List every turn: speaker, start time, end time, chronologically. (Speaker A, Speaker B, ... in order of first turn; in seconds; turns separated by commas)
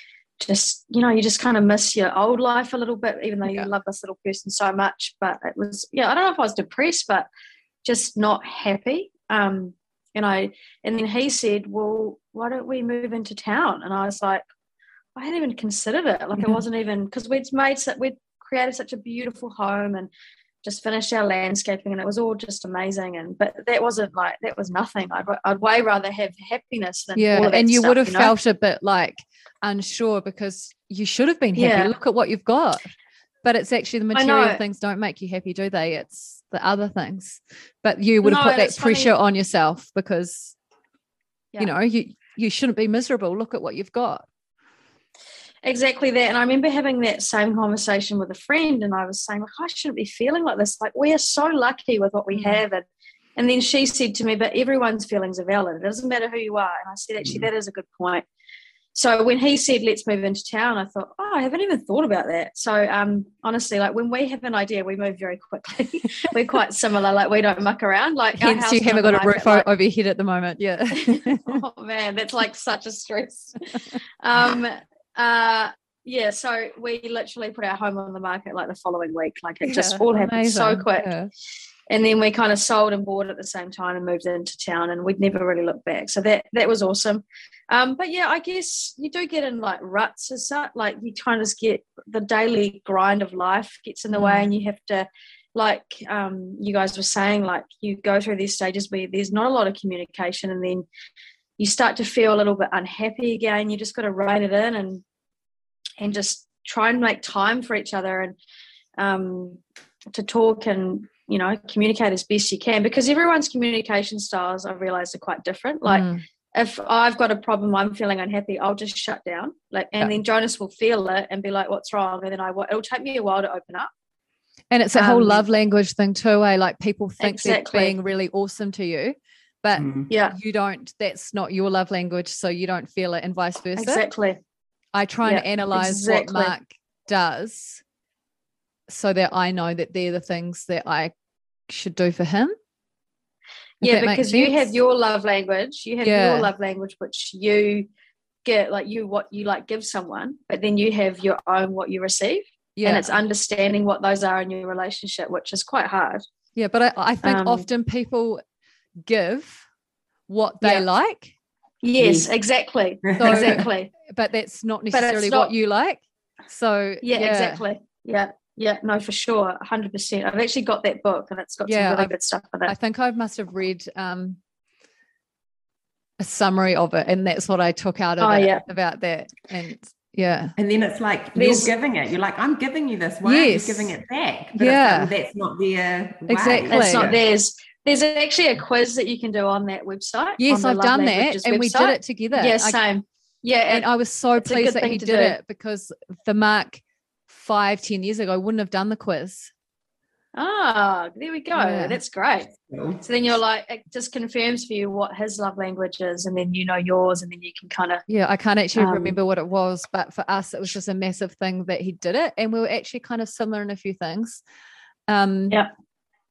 Speaker A: 0.4-7.3, Speaker A: 7.8-14.4, Speaker A: 15.2-20.1, Speaker A: 20.6-28.3, Speaker B: 27.1-32.9, Speaker A: 31.6-31.9, Speaker B: 33.4-40.5, Speaker A: 34.1-34.6, Speaker A: 38.2-39.1, Speaker B: 41.6-44.2, Speaker A: 45.6-52.9, Speaker B: 52.3-52.6, Speaker A: 53.4-58.2, Speaker A: 58.9-69.7, Speaker B: 68.4-71.6, Speaker A: 70.9-73.6, Speaker A: 74.2-81.1, Speaker B: 79.6-81.3, Speaker A: 81.9-100.8, Speaker B: 94.1-94.4, Speaker A: 101.6-105.0, Speaker A: 106.0-108.3, Speaker A: 109.0-109.6, Speaker A: 110.1-123.9, Speaker B: 115.8-116.2, Speaker B: 124.7-134.0, Speaker A: 125.0-125.4, Speaker A: 127.2-128.0, Speaker C: 129.8-130.1, Speaker A: 130.1-130.3, Speaker A: 133.8-134.4, Speaker B: 134.9-137.8, Speaker A: 135.2-136.5, Speaker B: 138.9-141.1, Speaker B: 141.7-142.5, Speaker B: 143.8-144.7, Speaker A: 143.8-147.9, Speaker B: 146.0-146.5, Speaker A: 148.4-156.2, Speaker B: 152.8-153.1, Speaker B: 156.6-158.4, Speaker A: 157.2-157.7, Speaker B: 159.1-159.6, Speaker B: 160.3-161.3, Speaker A: 161.8-163.9, Speaker C: 162.0-162.3, Speaker C: 163.0-163.6, Speaker B: 163.2-167.6, Speaker A: 164.9-165.5, Speaker A: 167.0-172.7, Speaker B: 171.7-172.1, Speaker B: 172.7-174.4, Speaker B: 176.2-180.5, Speaker A: 178.2-178.6, Speaker C: 180.6-187.2, Speaker A: 181.3-181.7, Speaker B: 183.2-184.0, Speaker B: 184.5-185.1, Speaker B: 186.3-187.1, Speaker A: 186.7-193.9, Speaker B: 190.4-192.8, Speaker B: 193.7-199.5, Speaker A: 194.4-195.3, Speaker A: 200.3-208.0, Speaker B: 201.5-202.0, Speaker C: 202.5-203.0, Speaker B: 208.1-214.4, Speaker A: 208.8-209.2, Speaker B: 215.1-215.6